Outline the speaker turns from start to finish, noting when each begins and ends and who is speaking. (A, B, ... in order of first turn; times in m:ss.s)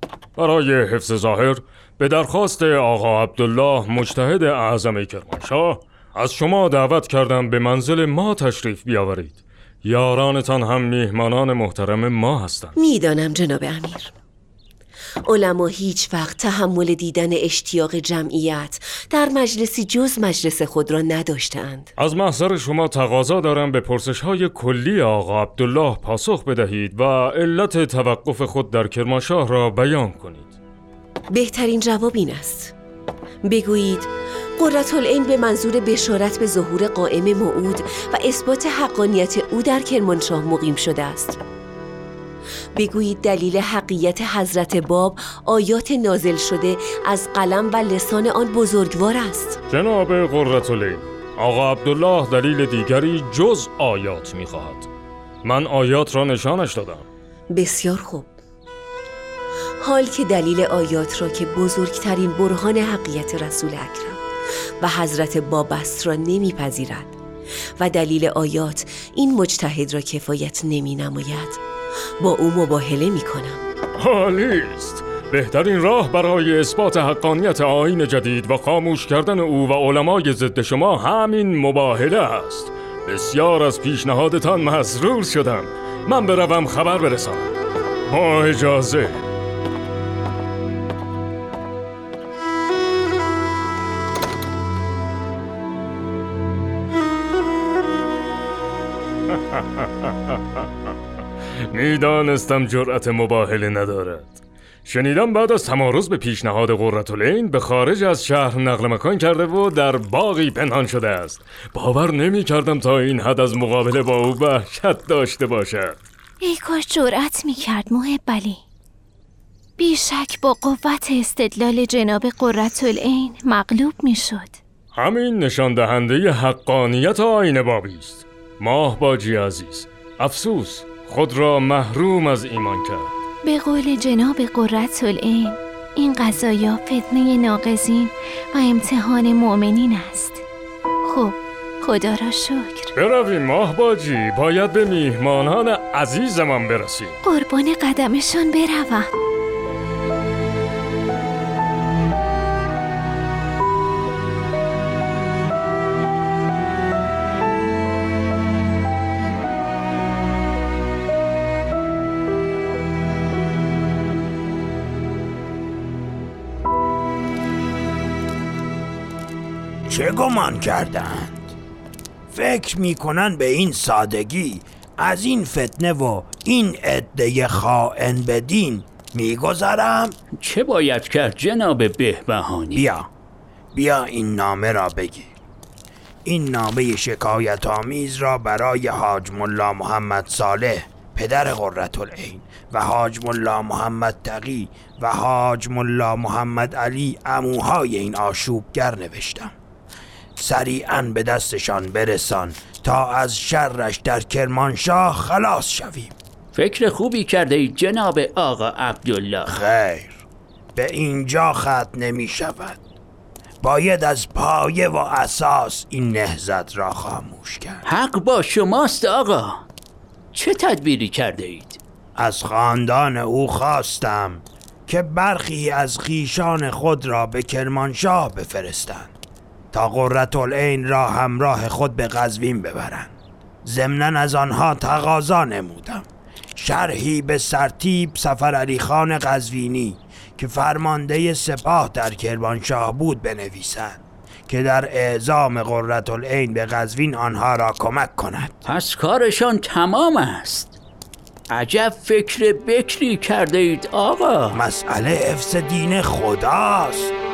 0:00.4-0:12.8 A
0:12.8-0:14.1 B
0:15.3-0:21.8 B
0:22.0-0:30.5 A
0:31.4-0:32.6 B
0:33.5-0:34.0 B
0:34.6-0:41.4 B
0:42.8-0:49.5 B
0:49.7-0:54.9 A
0:55.4-0:57.0 A
0:57.6-0:58.2 B
0:59.8-1:04.2 B
1:04.8-1:07.0 B
1:07.8-1:11.6 B
1:12.2-1:13.6 B
1:14.0-1:27.5 A
1:28.1-1:29.2 A
1:41.7-1:56.0 A
1:56.4-1:58.6 C
1:59.8-2:04.6 C
2:05.0-2:13.1 A
2:13.5-2:20.4 C
2:21.1-2:22.9 C
2:23.0-2:27.2 A
2:27.2-2:29.1 C
2:49.9-2:51.5 D
2:52.3-3:00.1 D
3:00.4-3:02.9 E
3:02.8-3:03.1 D
3:03.7-3:05.3 D
3:06.2-3:19.5 D
3:20.4-3:26.1 D
3:26.6-3:29.6 E
3:29.5-3:30.2 D
3:30.8-3:32.8 D
3:33.6-3:37.8 D
3:37.8-3:39.6 E
3:40.3-3:41.8 E
3:42.2-3:49.1 D
3:49.7-3:53.1 D
3:53.6-3:56.0 D
3:56.6-4:08.6 D
4:08.6-4:10.8 E
4:11.5-4:14.6 E
4:14.6-4:17.1 D